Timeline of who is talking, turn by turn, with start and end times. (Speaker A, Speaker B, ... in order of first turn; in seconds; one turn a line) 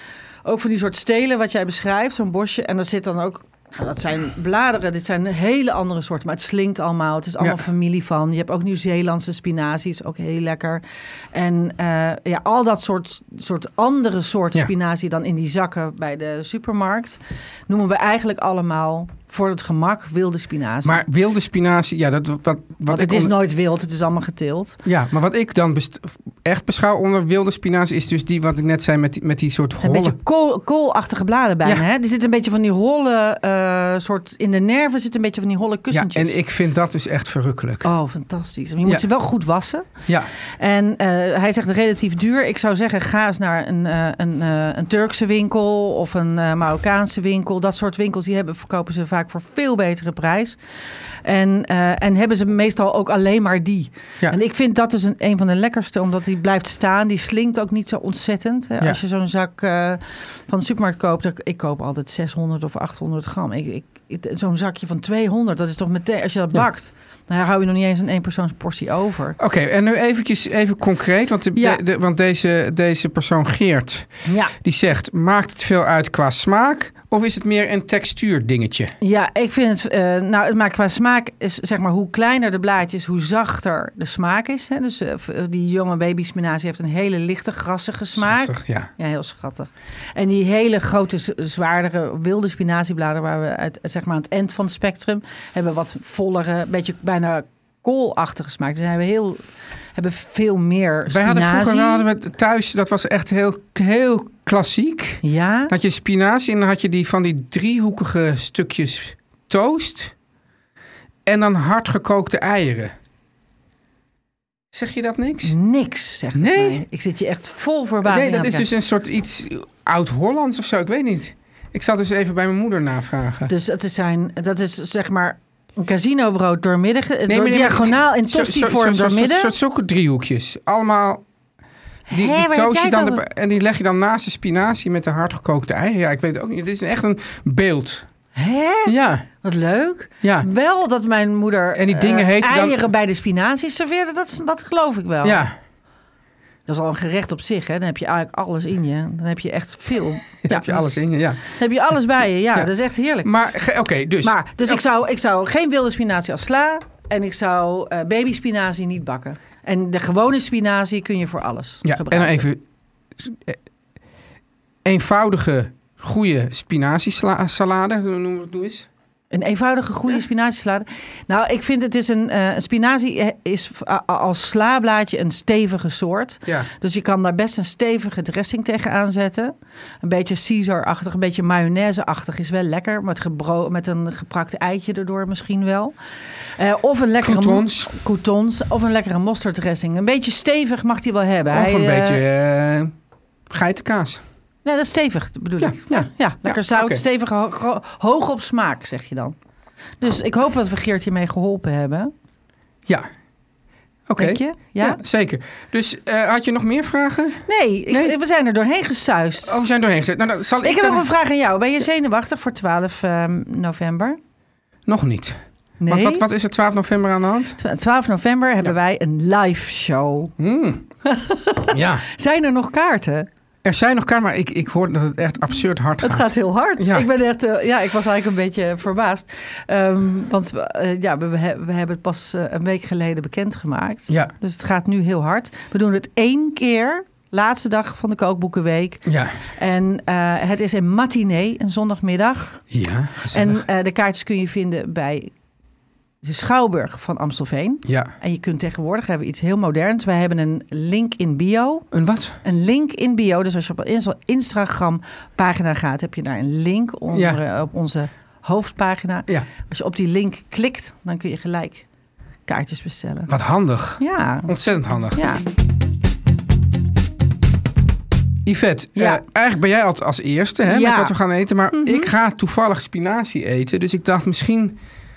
Speaker A: 0.4-21.0
Speaker B: 20.8-23.3
Speaker A: 22.9-24.8
Speaker B: 24.8-30.1
Speaker A: 29.8-36.4
Speaker B: 35.9-37.9
Speaker A: 37.8-39.9
Speaker A: 40.6-50.6
Speaker A: 51.2-69.4
Speaker B: 69.4-78.9
Speaker A: 71.5-71.8
Speaker A: 74.2-74.5
Speaker A: 79.0-99.4
Speaker B: 88.2-88.9
Speaker A: 99.9-102.0
Speaker B: 101.1-110.1
Speaker A: 105.2-105.7
Speaker B: 111.2-112.9
Speaker B: 114.7-115.5
Speaker A: 115.4-118.7
Speaker B: 116.3-116.8
Speaker B: 118.0-123.5
Speaker A: 123.5-129.5
Speaker B: 127.3-131.2
Speaker A: 132.1-133.2
Speaker B: 132.1-138.1
Speaker A: 138.3-145.4
Speaker B: 138.8-139.3
Speaker B: 140.2-140.5
Speaker B: 141.7-142.8
Speaker B: 145.2-145.5
Speaker A: 146.7-153.3
Speaker B: 150.4-151.4
Speaker B: 153.2-154.8
Speaker A: 154.2-162.4
Speaker B: 161.8-162.6
Speaker B: 163.2-163.6
Speaker B: 164.8-168.9
Speaker A: 169.3-185.9
Speaker A: 186.6-192.2
Speaker B: 187.2-187.9
Speaker B: 191.5-192.9
Speaker B: 193.5-194.2
Speaker A: 194.6-199.3
Speaker B: 195.6-197.0
Speaker A: 200.0-202.1
Speaker B: 204.1-208.1
Speaker A: 204.2-205.0
Speaker A: 207.5-209.6
Speaker B: 209.4-211.1
Speaker A: 210.6-214.2
Speaker B: 214.9-217.6
Speaker A: 215.8-216.2
Speaker A: 217.6-220.3
Speaker B: 220.4-220.9
Speaker A: 221.0-223.3
Speaker B: 221.7-222.0
Speaker B: 223.6-227.1
Speaker A: 226.0-242.6
Speaker B: 239.1-239.3
Speaker B: 242.7-243.6
Speaker A: 243.3-245.3
Speaker A: 246.2-251.8
Speaker B: 247.8-248.1
Speaker B: 251.9-252.4
Speaker A: 252.4-261.9
Speaker B: 257.1-257.4
Speaker A: 262.5-263.3
Speaker B: 263.3-265.2
Speaker A: 264.0-264.5
Speaker A: 265.1-265.4
Speaker B: 268.4-274.8
Speaker A: 268.9-269.2
Speaker A: 270.7-271.1
Speaker A: 271.7-272.1